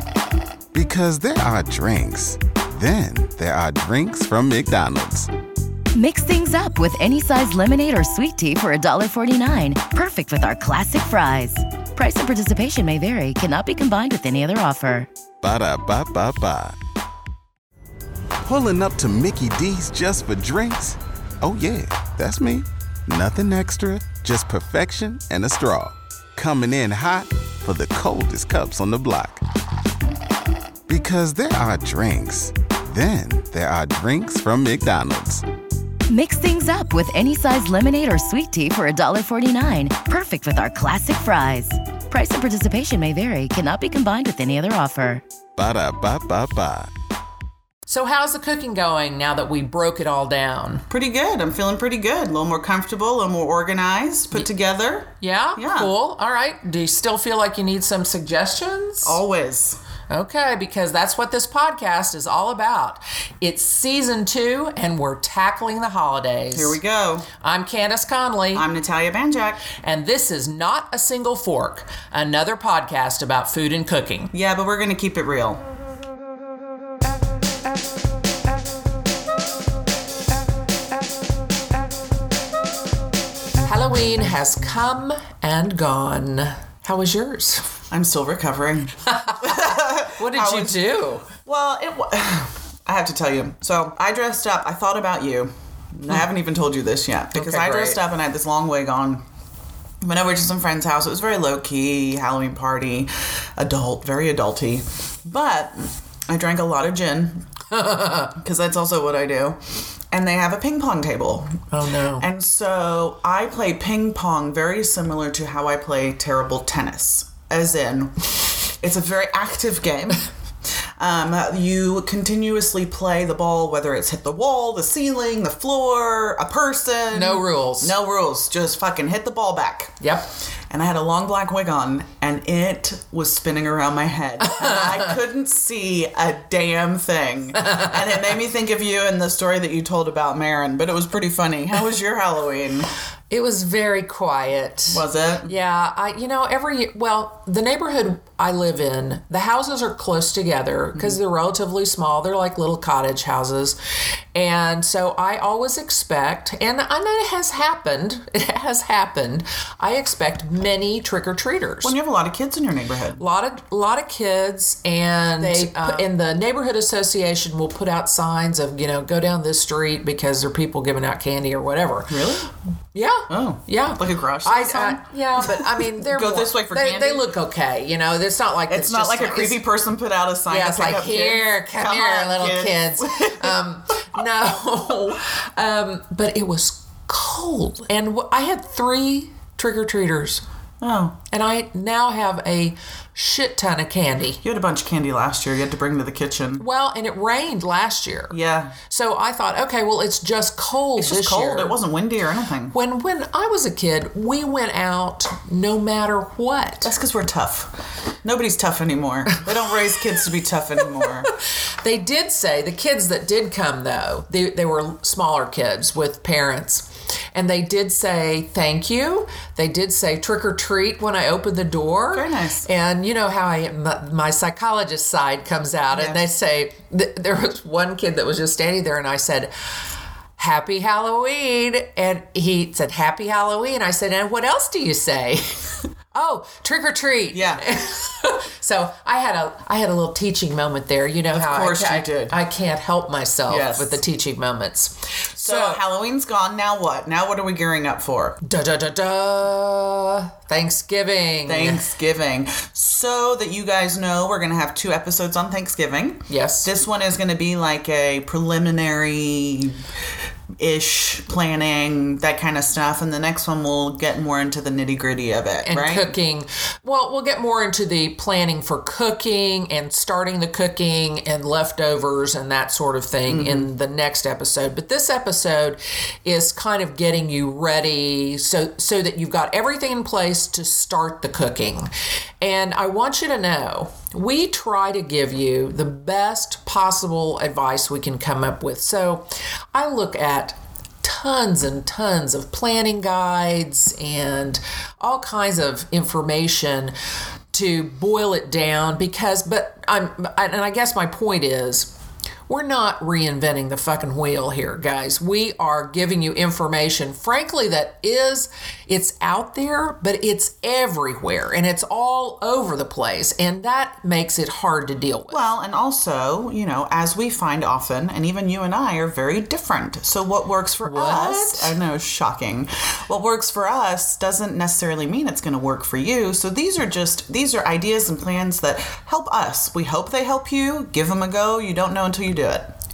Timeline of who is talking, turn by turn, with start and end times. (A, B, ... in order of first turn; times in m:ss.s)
0:00.7-0:05.3 A
0:05.9-0:15.1 B
0:15.4-0:16.8 A
0:18.4-0:29.4 A
0:30.9-0:35.4 A
0:36.1-0:45.2 B
0:45.6-0:46.9 A
0:47.8-0:50.8 C
0:50.9-0:55.9 D
0:55.2-0:59.2 C
0:59.0-0:59.8 D
1:00.1-1:06.8 C
1:06.5-1:07.3 D
1:07.4-1:08.7 C
1:08.5-1:09.7 D
1:09.8-1:14.3 C
1:14.3-1:15.6 D
1:23.6-1:27.7 C
1:27.9-1:39.2 D
1:29.0-1:31.3 C
1:37.3-1:38.0 C
1:40.0-1:47.4 D
1:47.7-1:48.4 C
1:48.3-1:49.6 D
1:50.1-1:51.6 D
1:51.7-1:52.2 C
1:52.2-2:00.3 D
2:01.0-2:10.0 D
2:07.1-2:07.9 C
2:10.0-2:10.3 C
2:10.7-2:22.9 D
2:14.6-2:14.9 C
2:17.6-2:17.9 C
2:23.3-2:33.8 C
2:24.9-2:25.5 D
2:34.3-2:41.9 C
2:41.8-2:43.2 D
2:43.2-2:52.2 C
2:45.4-2:46.0 D
2:52.1-2:52.5 D
2:52.9-2:59.6 C
2:53.3-2:57.3 D
2:58.7-3:03.6 D
3:00.5-3:10.4 C
3:10.8-3:11.2 D
3:11.3-3:14.4 C
3:14.4-3:16.6 D
3:16.6-3:18.4 C
3:18.3-3:18.7 D
3:18.9-3:21.8 C
3:21.0-3:22.7 D
3:22.7-3:26.9 C
3:26.8-3:31.3 D
3:31.8-3:49.5 C
3:42.1-3:42.7 D
3:45.9-3:46.2 D
3:50.4-4:05.8 C
3:57.3-3:57.6 D
4:01.3-4:02.4 D
4:03.5-4:04.0 D
4:05.4-4:08.4 D
4:08.4-4:11.8 C
4:11.4-4:19.8 D
4:16.3-4:16.7 C
4:20.6-4:26.1 D
4:25.6-4:56.9 C
4:33.3-4:33.7 D
4:57.5-5:01.9 C
5:02.5-5:15.4 C
5:15.3-5:32.7 D
5:20.8-5:21.7 C